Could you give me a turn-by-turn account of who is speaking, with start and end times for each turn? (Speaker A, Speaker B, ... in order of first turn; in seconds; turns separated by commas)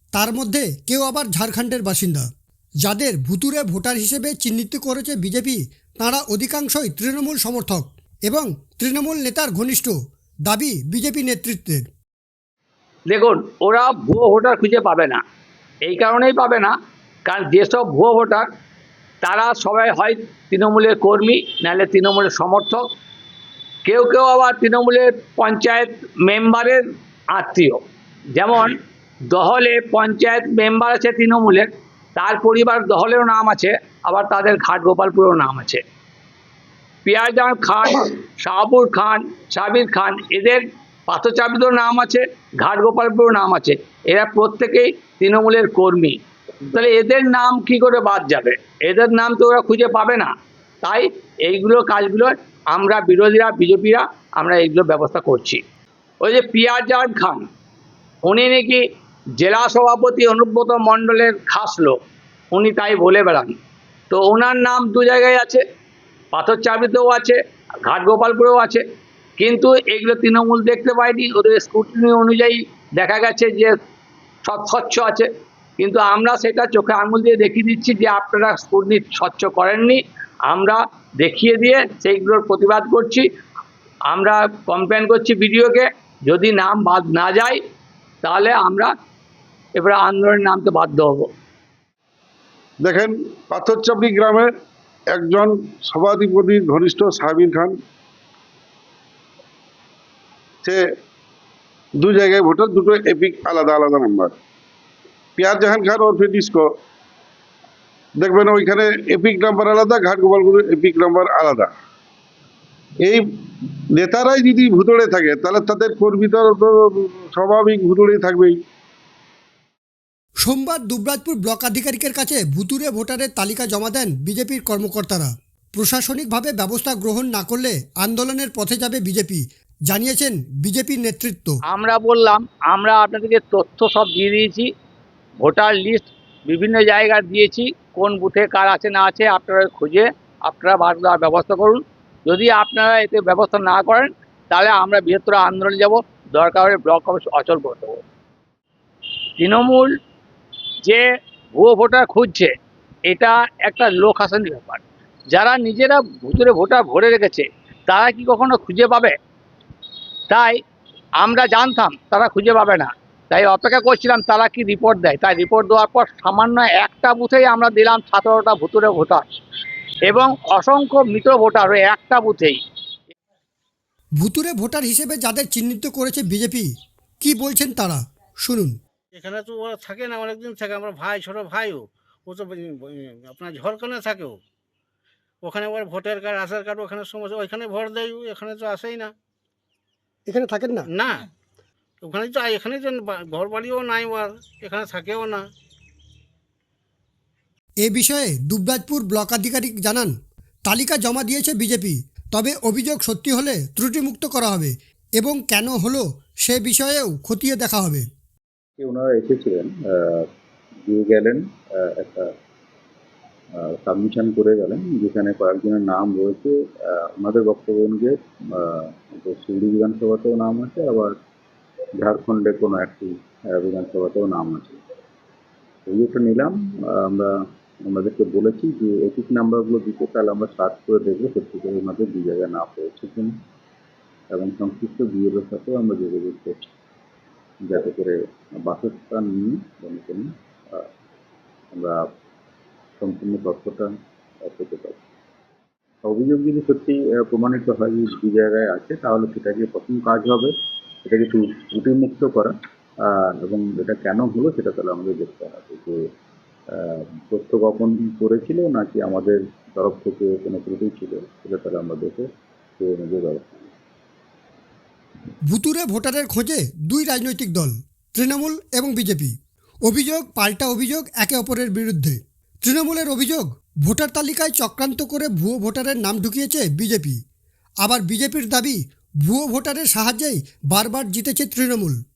Speaker A: 0.1-2.3, Speaker A: 2.8-9.9, Speaker A: 10.5-11.9, Speaker B: 13.1-15.2, Speaker B: 15.8-16.7, Speaker B: 17.3-18.5, Speaker B: 19.2-22.9, Speaker B: 23.9-26.8, Speaker B: 27.3-27.8, Speaker B: 28.3-28.8, Speaker B: 29.3-35.8, Speaker B: 37.0-46.2, Speaker B: 46.7-55.6, Speaker B: 56.2-57.5, Speaker B: 58.2-58.8, Speaker B: 59.4-62.0, Speaker B: 62.5-63.5, Speaker B: 64.1-65.6, Speaker B: 66.3-68.8, Speaker B: 69.4-73.7, Speaker B: 74.4-83.3, Speaker B: 84.1-87.6, Speaker B: 88.2-88.9, Speaker B: 89.8-91.3, Speaker C: 92.8-94.5, Speaker C: 95.1-97.8, Speaker C: 102.0-104.3, Speaker C: 105.4-106.7, Speaker C: 108.2-111.7, Speaker C: 114.0-118.6, Speaker A: 120.5-131.6, Speaker B: 131.7-134.7, Speaker B: 135.4-148.0, Speaker B: 149.4-149.9, Speaker B: 151.6-152.5, Speaker B: 153.1-159.1, Speaker B: 160.3-160.6, Speaker B: 161.2-169.3, Speaker B: 170.1-172.6, Speaker A: 174.2-176.7, Speaker A: 177.2-178.8, Speaker D: 179.1-184.4, Speaker D: 185.4-189.1, Speaker A: 190.3-190.9, Speaker D: 190.9-191.2, Speaker D: 192.0-195.5, Speaker A: 197.8-200.1, Speaker A: 200.7-208.0, Speaker E: 208.8-210.2, Speaker E: 210.8-212.3, Speaker E: 213.6-221.2, Speaker E: 222.0-224.8, Speaker E: 225.9-227.3, Speaker E: 227.8-233.3, Speaker E: 234.3-236.7, Speaker E: 237.6-240.8, Speaker E: 241.7-242.0, Speaker E: 243.0-243.9, Speaker E: 244.4-245.0, Speaker E: 246.0-250.5, Speaker E: 251.1-252.5, Speaker E: 253.1-256.0, Speaker E: 256.7-262.2, Speaker E: 262.8-263.7, Speaker A: 265.5-269.3, Speaker A: 269.9-277.2, Speaker A: 277.8-282.0